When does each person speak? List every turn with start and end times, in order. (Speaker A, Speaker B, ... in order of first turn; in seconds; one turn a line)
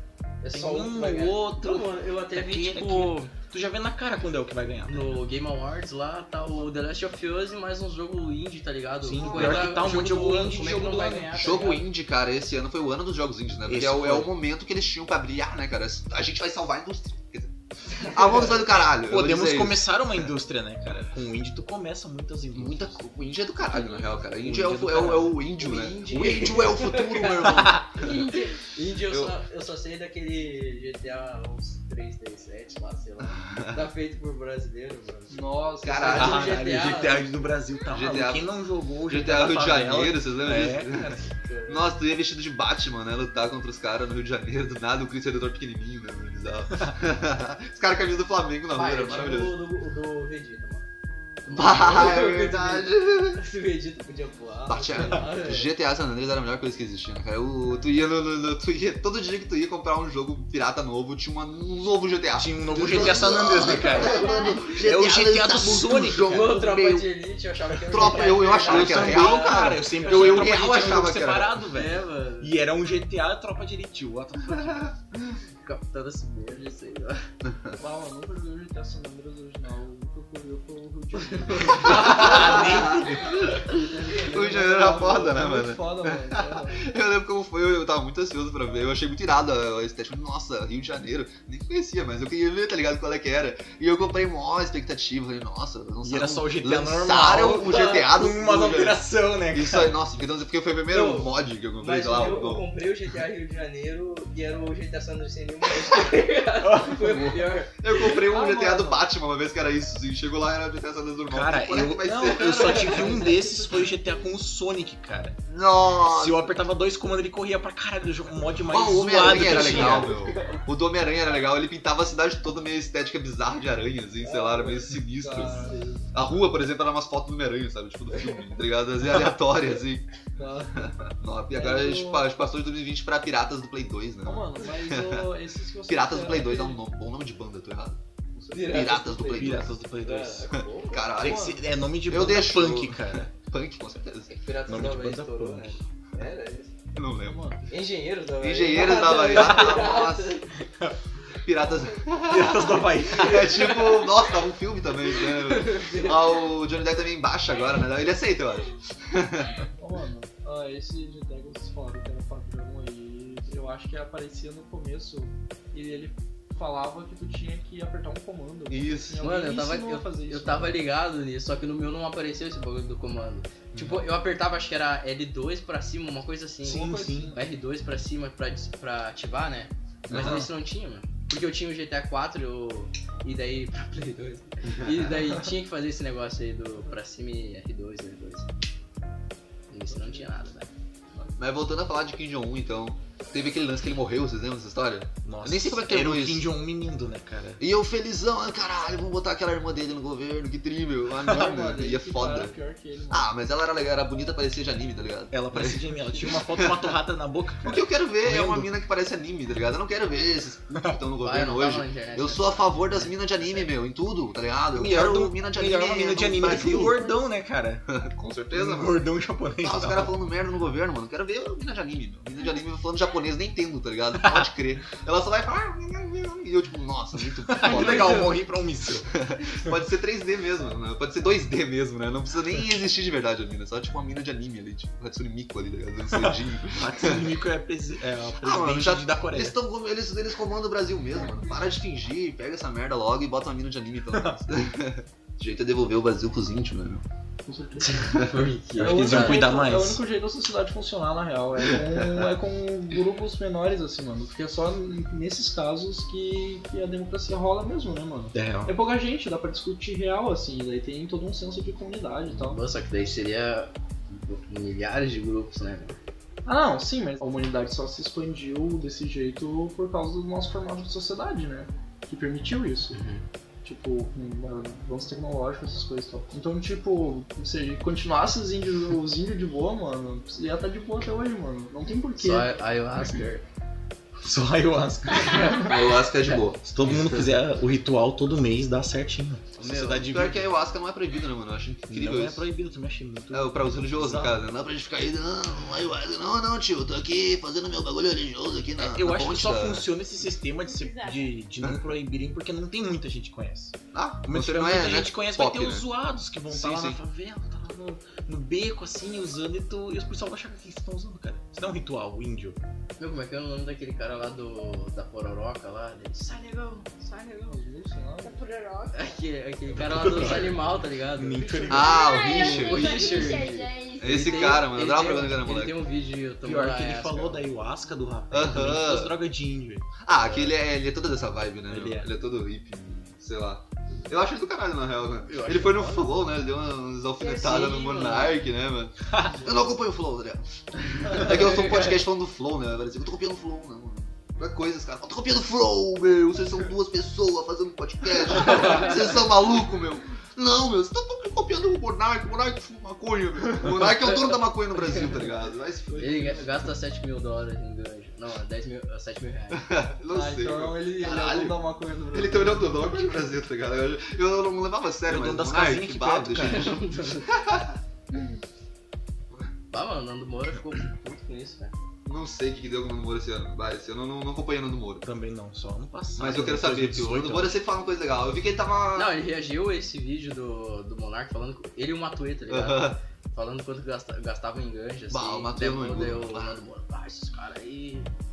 Speaker A: 0.4-3.3
Speaker B: 0.5-5.2
Speaker A: 4.9-11.8
Speaker B: 9.0-11.4
Speaker C: 11.3-20.3
Speaker B: 13.7-14.3
Speaker A: 17.9-18.6
Speaker B: 18.9-23.0
Speaker C: 22.5-28.1
Speaker B: 24.3-25.4
Speaker A: 25.6-35.4
Speaker B: 27.4-27.8
Speaker D: 28.1-28.3
Speaker C: 29.1-29.3
Speaker C: 33.4-33.8
Speaker E: 35.3-36.5
Speaker C: 35.8-36.6
Speaker A: 36.0-37.3
Speaker B: 36.1-40.9
Speaker C: 37.9-38.5
Speaker C: 39.1-49.5
Speaker A: 40.9-41.9
Speaker A: 48.7-50.9
Speaker A: 51.5-55.7
Speaker C: 51.5-53.4
Speaker C: 54.7-67.1
Speaker B: 62.3-66.5
Speaker A: 63.9-64.6
Speaker D: 63.9-64.6
Speaker A: 66.2-70.5
Speaker C: 67.9-71.6
Speaker B: 67.9-74.9
Speaker A: 71.7-72.6
Speaker C: 74.5-74.9
Speaker A: 75.6-77.2
Speaker E: 76.5-77.0
Speaker C: 77.4-77.8
Speaker E: 77.8-86.9
Speaker A: 81.3-82.5
Speaker B: 81.7-83.3
Speaker C: 81.7-102.7
Speaker B: 96.0-100.0
Speaker A: 97.4-98.1
Speaker A: 100.9-108.2
Speaker B: 106.6-107.5
Speaker C: 107.8-113.2
Speaker E: 108.2-109.0
Speaker B: 111.3-115.4
Speaker E: 112.3-114.2
Speaker A: 112.4-113.3
Speaker C: 115.5-116.6
Speaker B: 116.0-120.2
Speaker C: 118.7-130.1
Speaker E: 119.2-120.6
Speaker A: 124.2-124.9
Speaker E: 125.1-126.0
Speaker E: 130.3-130.9
Speaker C: 130.7-135.3
Speaker E: 131.5-132.2
Speaker E: 134.2-136.8
Speaker C: 135.9-139.8
Speaker A: 138.5-141.1
Speaker B: 139.3-140.6
Speaker C: 140.5-141.6
Speaker B: 141.2-143.3
Speaker E: 141.2-141.6
Speaker C: 142.1-144.3
Speaker A: 144.3-146.7
Speaker B: 144.7-145.8
Speaker C: 146.9-147.5
Speaker E: 147.2-147.6
Speaker A: 147.7-150.5
Speaker C: 148.4-150.4
Speaker B: 149.4-149.8
Speaker B: 150.6-151.0
Speaker C: 151.4-159.7
Speaker B: 152.2-153.7
Speaker A: 153.1-154.1
Speaker A: 155.1-156.5
Speaker E: 159.8-170.8
Speaker C: 168.7-169.2
Speaker A: 169.2-188.5
Speaker C: 173.7-174.0
Speaker B: 176.6-177.3
Speaker E: 176.6-177.4
Speaker C: 180.1-180.5
Speaker B: 180.1-180.5
Speaker C: 184.6-185.1
Speaker A: 189.7-190.7
Speaker E: 189.9-190.3
Speaker C: 191.4-196.5
Speaker B: 195.2-197.6
Speaker C: 197.6-202.6
Speaker E: 201.2-203.3
Speaker C: 203.1-205.8
Speaker B: 205.3-208.7
Speaker C: 206.5-206.9
Speaker C: 207.6-217.0
Speaker A: 211.2-213.7
Speaker B: 214.7-217.8
Speaker C: 217.9-219.0
Speaker B: 218.5-220.1
Speaker C: 219.6-228.4
Speaker B: 224.2-224.5
Speaker B: 227.4-229.1
Speaker A: 227.6-228.2
Speaker C: 229.1-237.3
Speaker B: 236.1-239.6
Speaker C: 238.4-247.0
Speaker B: 244.1-244.4
Speaker E: 247.5-247.9
Speaker A: 247.8-249.4
Speaker B: 248.8-250.0
Speaker E: 248.8-262.6
Speaker C: 251.6-252.3
Speaker B: 258.3-258.7
Speaker A: 262.2-266.0
Speaker E: 266.4-273.0
Speaker A: 272.9-273.2
Speaker E: 273.6-282.5
Speaker A: 282.2-283.4
Speaker B: 284.2-285.8
Speaker C: 285.5-287.4
Speaker B: 286.6-290.5
Speaker A: 289.6-290.1
Speaker C: 290.0-292.4
Speaker B: 291.9-294.4
Speaker C: 293.3-299.9
Speaker B: 298.8-312.6
Speaker D: 300.6-301.3
Speaker C: 301.6-301.9
Speaker C: 303.9-305.9
Speaker C: 306.5-307.0
Speaker A: 313.0-317.6
Speaker E: 317.4-318.4
Speaker D: 318.2-319.1
Speaker A: 318.9-327.4
Speaker B: 319.7-322.1
Speaker C: 321.7-323.2
Speaker D: 321.8-324.2
Speaker C: 324.0-325.8
Speaker B: 326.4-329.9
Speaker C: 328.3-329.1
Speaker C: 330.0-356.6
Speaker A: 330.1-330.5
Speaker B: 331.7-332.1
Speaker B: 335.3-336.2
Speaker A: 337.2-338.4
Speaker B: 339.1-339.4
Speaker A: 341.0-342.0
Speaker A: 348.3-349.1
Speaker A: 354.8-355.0
Speaker E: 355.9-356.5
Speaker A: 356.0-359.9
Speaker C: 359.5-367.8
Speaker E: 360.1-363.4
Speaker B: 365.1-366.7
Speaker A: 366.4-367.4
Speaker A: 369.7-371.7
Speaker C: 372.0-375.0
Speaker B: 375.0-377.6
Speaker C: 376.2-379.1
Speaker A: 378.9-388.1
Speaker C: 382.5-383.0
Speaker C: 385.1-386.6